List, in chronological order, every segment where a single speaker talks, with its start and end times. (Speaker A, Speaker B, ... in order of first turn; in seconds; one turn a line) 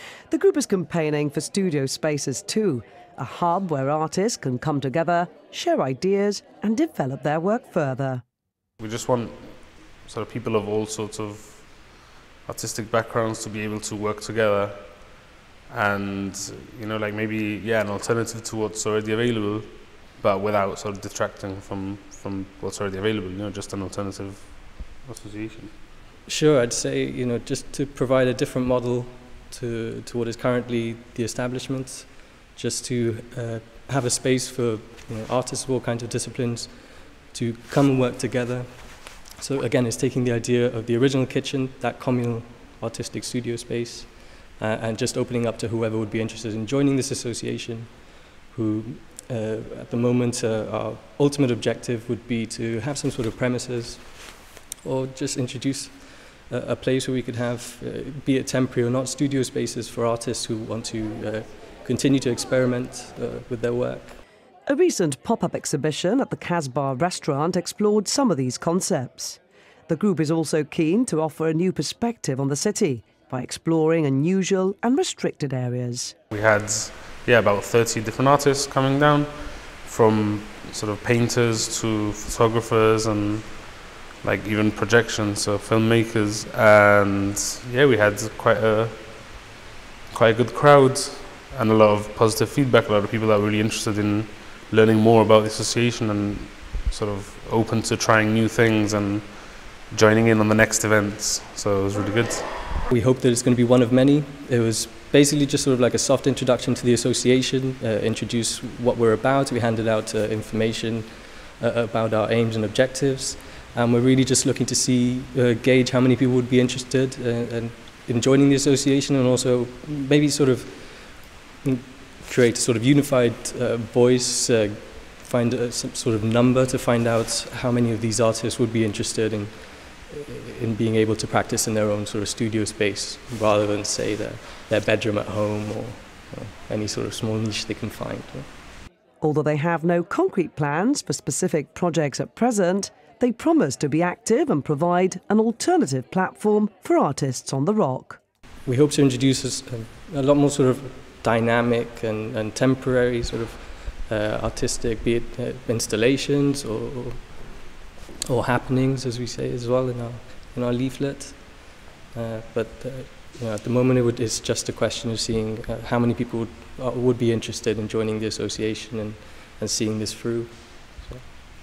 Speaker A: 0.3-8.2
Speaker B: 8.8-25.7
Speaker C: 26.2-64.2
Speaker A: 64.7-76.1
Speaker B: 76.3-89.4
Speaker B: 90.1-102.8
Speaker C: 102.9-138.5
Speaker A: 139.2-148.2
Speaker C: 148.7-157.6
Speaker C: 158.3-171.3